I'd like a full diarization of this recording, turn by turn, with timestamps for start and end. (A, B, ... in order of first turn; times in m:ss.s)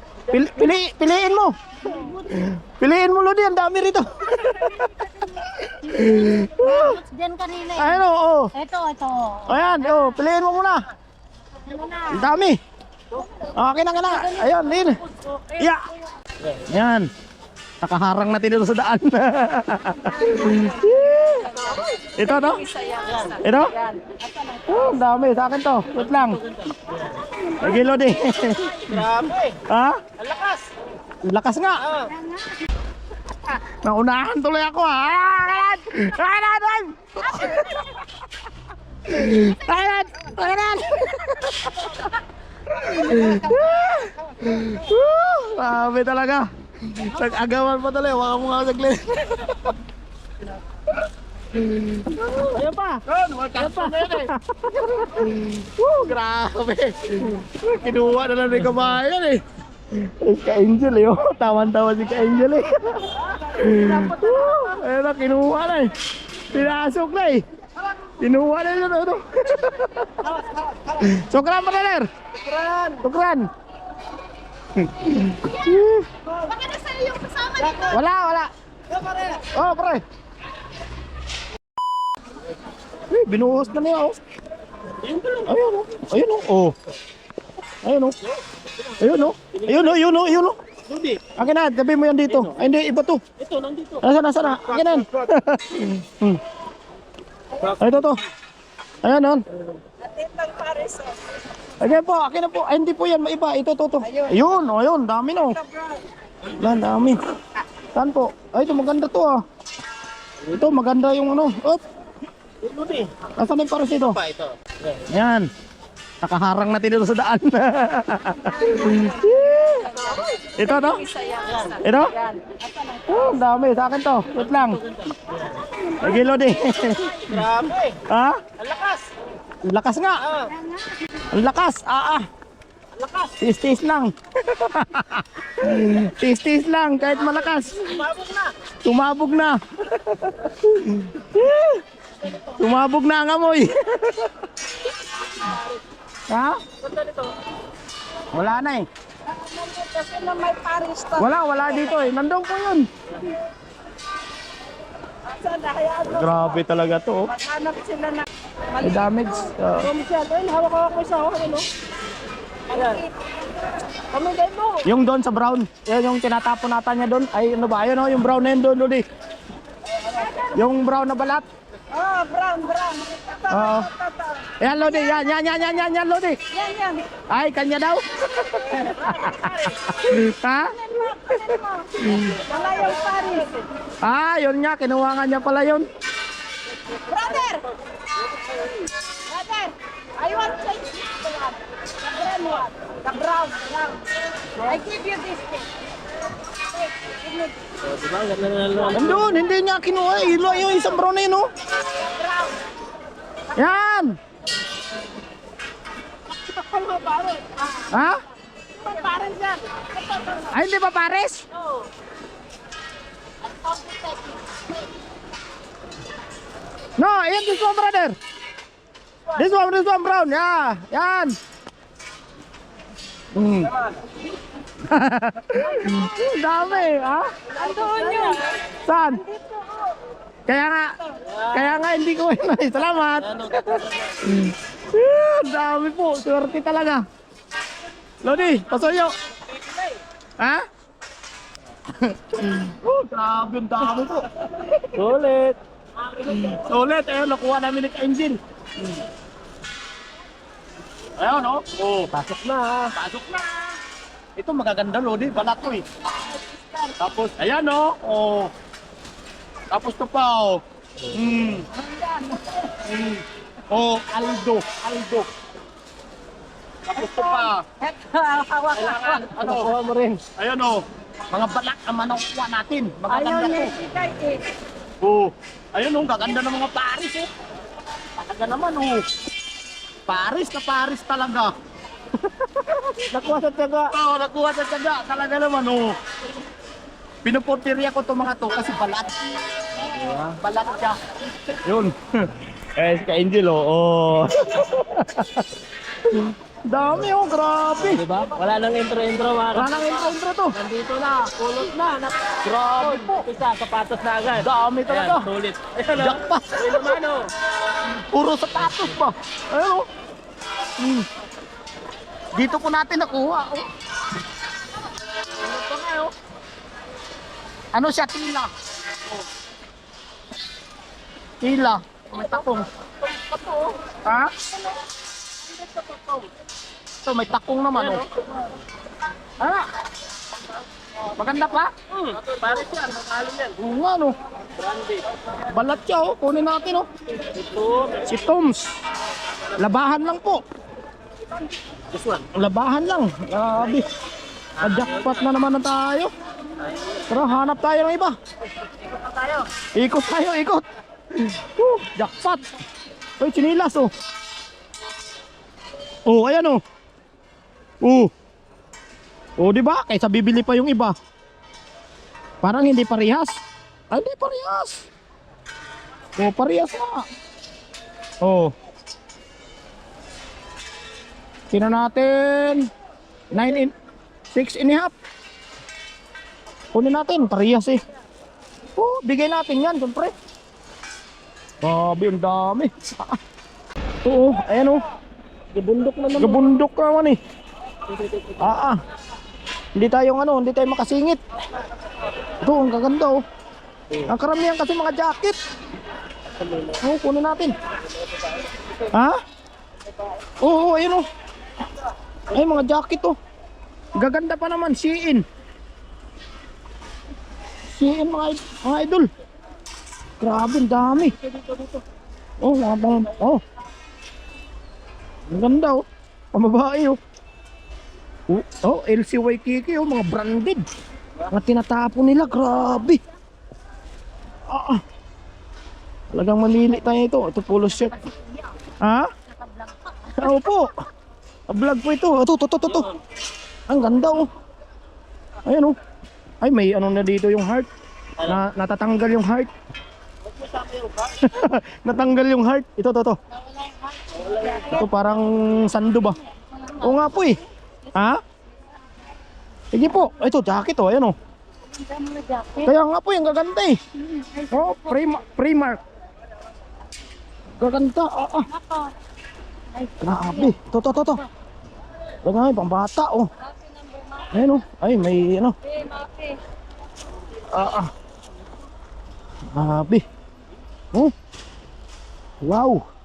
0:00.3-0:01.5 A
0:01.8-0:02.5 B
0:02.3-0:07.0 A
0:04.4-0:05.0 B
0:05.8-0:10.1 B
0:07.8-0:08.5 A
0:09.5-0:10.8 A
0:11.6-0:12.2 B
0:12.1-0:12.6 A
0:13.5-0:15.0 A
0:14.1-0:15.6 B
0:15.6-0:15.9 A
0:16.6-0:17.1 A
0:17.8-0:22.7 A
0:22.9-0:23.2 B
0:23.0-0:23.3 C
0:23.2-0:23.7 A
0:24.1-0:24.7 B
0:24.6-0:26.4 A
0:26.1-0:27.2 C
0:27.6-0:29.1 A
0:28.9-0:29.6 C
0:29.6-0:30.0 A
0:30.2-0:30.7 C
0:31.2-0:31.9 A
0:33.4-0:38.1 A
0:39.0-0:42.0 A
0:42.7-0:49.7 A
0:51.5-0:52.4 A
0:52.4-0:54.3 C
0:53.1-0:59.4 A
0:59.9-1:05.9 A
1:06.4-1:07.4 A
1:08.2-1:10.3 A
1:10.3-1:10.9 C
1:11.0-1:12.1 A
1:12.4-1:13.0 C
1:13.0-1:13.5 A
1:14.8-1:16.1 A
1:16.5-1:17.8 B
1:17.6-1:18.0 C
1:17.9-1:18.5 A
1:18.9-1:19.4 C
1:19.5-1:20.0 A
1:23.1-1:24.2 A
1:25.0-1:25.5 C
1:25.4-1:26.7 A
1:27.8-1:28.2 A
1:29.0-1:30.6 A
1:29.5-1:29.9 C
1:30.9-1:31.3 C
1:31.4-1:33.2 A
1:32.3-1:32.6 C
1:33.4-1:35.2 C
1:34.0-1:36.4 A
1:37.8-1:38.2 A
1:39.0-1:39.4 A
1:40.1-1:41.2 C
1:41.8-1:45.6 A
1:46.6-1:47.2 A
1:47.9-1:49.4 A
1:50.5-1:51.8 A
1:52.6-1:53.2 C
1:53.3-1:54.2 A
1:54.1-1:54.5 C
1:55.0-1:55.5 A
1:56.2-2:02.2 A
2:01.4-2:01.7 C
2:02.4-2:03.1 B
2:03.0-2:04.8 A
2:04.4-2:05.5 C
2:06.0-2:07.5 A
2:07.3-2:08.0 C
2:08.0-2:08.4 A
2:08.6-2:09.1 C
2:09.6-2:10.2 A
2:10.3-2:10.5 C
2:11.3-2:12.2 A
2:13.0-2:13.3 C
2:13.4-2:18.0 A
2:17.8-2:18.5 C
2:18.8-2:21.8 A
2:22.4-2:24.5 A
2:26.3-2:26.6 A
2:26.8-2:27.4 C
2:28.3-2:28.9 A
2:29.5-2:30.6 B
2:29.7-2:31.2 C
2:31.2-2:32.9 A
2:35.3-2:36.5 C
2:36.0-2:37.3 A
2:37.4-2:38.1 C
2:37.6-2:38.2 B
2:38.8-2:39.9 A
2:39.8-2:41.7 C
2:42.7-2:43.1 C
2:44.1-2:44.8 C
2:44.8-2:49.0 A
2:50.1-2:50.6 B
2:50.5-2:51.4 A
2:51.9-2:53.3 B
2:52.0-2:52.5 C
2:53.3-2:54.4 C
2:53.5-2:53.9 A
2:54.6-2:56.4 A
2:56.5-2:57.1 B
2:57.3-3:02.4 A
2:59.4-2:59.7 C
3:00.8-3:03.6 B
3:04.0-3:05.9 A
3:07.0-3:07.6 B
3:09.3-3:14.0 B
3:14.6-3:15.6 B
3:17.0-3:17.7 B
3:17.8-3:19.2 C
3:18.9-3:21.5 A
3:22.0-3:22.6 B
3:23.5-3:24.2 A
3:26.5-3:27.6 C
3:27.9-3:28.2 A
3:28.8-3:30.4 C
3:30.5-3:31.4 A
3:33.5-3:34.2 B
3:37.0-3:38.2 A
3:39.3-3:41.4 A
3:43.3-3:43.7 A
3:44.8-3:47.3 A
3:47.6-3:48.6 B
3:47.8-3:48.3 C
3:48.7-3:49.2 A
3:49.3-3:49.6 B
3:50.5-3:57.0 A
3:53.3-3:54.2 C
3:58.2-3:59.1 A
4:00.4-4:00.6 A
4:02.0-4:05.1 A
4:04.9-4:05.6 C
4:06.2-4:08.4 A
4:11.2-4:12.1 A
4:12.1-4:12.9 C
4:12.9-4:13.6 A
4:14.4-4:15.8 A
4:16.9-4:18.5 A
4:19.7-4:21.7 A
4:22.0-4:22.4 B
4:22.8-4:25.3 A
4:26.9-4:27.6 A
4:27.0-4:29.2 B
4:28.7-4:29.7 A
4:28.8-4:30.2 C
4:30.3-4:33.7 A
4:33.1-4:34.4 B
4:35.0-4:37.3 A
4:38.2-4:39.0 A
4:40.1-4:41.5 A
4:42.4-4:43.0 A
4:43.1-4:43.9 C
4:43.9-4:45.9 A
4:47.2-4:49.2 A
4:49.9-4:50.4 C
4:50.3-4:55.5 A
4:56.0-4:58.0 A
4:57.8-5:07.3 C
4:59.5-5:00.6 A
5:02.4-5:03.3 A
5:04.3-5:05.3 A
5:05.9-5:06.9 A
5:07.9-5:09.9 A
5:10.8-5:11.0 A
5:12.3-5:13.7 A
5:15.4-5:16.1 A
5:17.7-5:18.5 A
5:21.4-5:22.7 A
5:23.3-5:23.8 C
5:24.0-5:24.3 A
5:25.6-5:26.3 C
5:27.0-5:28.0 A
5:27.8-5:28.0 C
5:29.4-5:29.7 A
5:31.2-5:31.7 A
5:31.9-5:33.6 C
5:33.6-5:34.2 A
5:34.6-5:35.0 C
5:35.4-5:36.8 A
5:37.3-5:38.0 C
5:38.0-5:38.7 A
5:39.5-5:40.4 A
5:41.9-5:42.2 C
5:42.3-5:43.9 A
5:44.6-5:46.1 A
5:44.7-5:45.1 C
5:47.1-5:48.1 A
5:49.7-5:52.4 A
5:53.2-5:53.9 A
5:56.0-5:56.6 A
5:57.8-5:58.1 A
5:59.4-6:00.9 A
6:02.4-6:04.9 A
6:06.2-6:07.0 A
6:08.2-6:08.5 A
6:11.5-6:12.7 A
6:13.3-6:13.7 A
6:14.3-6:14.9 A
6:16.7-6:17.8 A
6:18.8-6:20.1 A
6:21.6-6:23.2 A
6:24.0-6:24.8 A
6:25.5-6:26.5 C
6:26.1-6:27.2 A
6:27.9-6:28.4 C
6:28.4-6:28.8 A
6:29.8-6:31.2 A
6:32.4-6:33.2 A
6:34.0-6:35.4 A
6:36.8-6:37.6 A
6:38.9-6:39.2 A
6:40.4-6:41.1 A
6:42.3-6:43.2 A
6:44.0-6:45.2 A
6:47.7-6:49.1 A
6:50.2-6:51.2 A
6:51.5-6:51.8 C
6:52.4-6:53.4 A
6:55.3-6:57.0 A
6:58.3-7:00.6 A
7:01.3-7:03.0 A
7:04.5-7:04.8 A
7:06.1-7:08.0 A
7:08.8-7:09.1 A
7:09.6-7:10.1 B
7:10.1-7:10.7 A
7:11.5-7:12.9 A
7:13.7-7:14.3 A
7:15.4-7:15.8 A
7:16.4-7:17.7 A
7:18.2-7:19.5 A
7:20.3-7:21.2 C
7:21.2-7:23.2 A
7:23.6-7:24.8 B
7:24.6-7:26.2 A
7:26.6-7:26.9 B
7:26.8-7:27.4 A
7:27.9-7:28.2 A
7:29.7-7:31.1 A
7:31.7-7:32.7 B
7:32.6-7:33.8 A
7:34.0-7:35.0 B
7:34.5-7:35.8 A
7:37.6-7:38.5 A
7:38.5-7:38.9 B
7:39.7-7:40.5 B
7:40.0-7:41.2 A
7:42.2-7:43.3 A
7:44.3-7:45.6 A
7:45.7-7:46.4 B
7:47.5-7:47.9 A
7:49.5-7:50.0 A
7:52.4-7:52.8 A